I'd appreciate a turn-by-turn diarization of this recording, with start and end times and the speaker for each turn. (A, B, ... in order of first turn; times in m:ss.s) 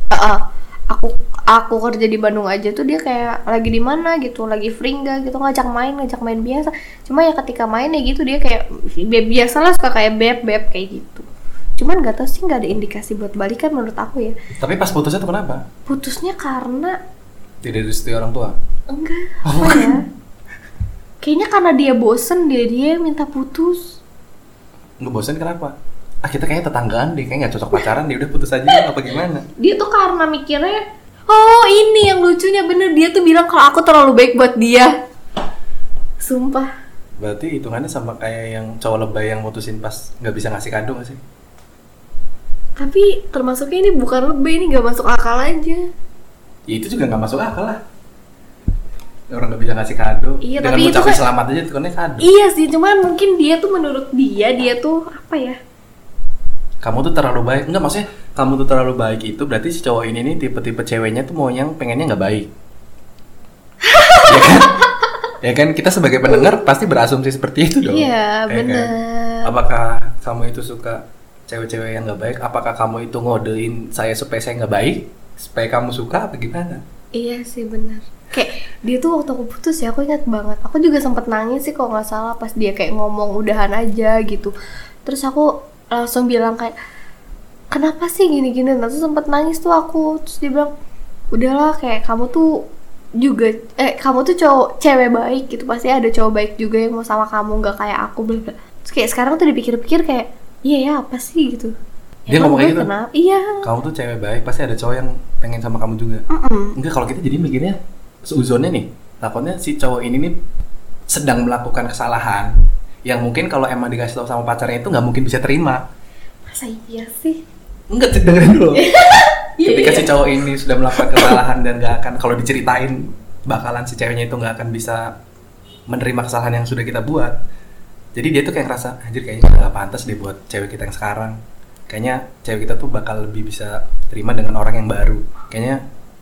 0:00.1-0:11.3 A
0:11.8-0:14.4 A
0:14.6-0:15.6 B
0:15.9-0:17.0 A
0:17.6-0:18.6 B
0:18.9-0:20.0 A
0:19.4-0:20.0 B
0:21.2-0:24.0 A
0:25.0-0:29.5 B
0:29.6-0:34.9 A
0:36.2-0:36.7 A
0:37.2-0:41.2 B
0:42.8-0:45.9 A
0:46.7-0:47.8 B
0:49.3-0:52.2 B
0:50.4-0:51.2 A
0:52.2-0:55.6 A
0:56.8-1:02.5 B
1:03.8-1:05.1 A
1:04.3-1:04.8 B
1:05.4-1:08.9 B
1:06.3-1:06.6 A
1:07.9-1:09.5 A
1:09.4-1:16.8 B
1:17.2-1:24.5 A
1:25.0-1:26.8 A
1:27.7-1:30.7 A
1:31.3-1:32.6 A
1:33.2-1:41.7 A
1:42.3-1:43.7 A
1:42.3-1:42.9 B
1:43.6-1:50.4 B
1:46.3-1:46.8 A
1:51.1-1:52.5 B
1:53.0-1:55.8 B
1:56.5-1:57.4 A
1:57.9-2:05.1 B
1:58.8-2:00.4 A
2:01.0-2:01.3 A
2:05.9-2:07.3 B
2:08.2-2:11.4 B
2:11.9-2:15.8 B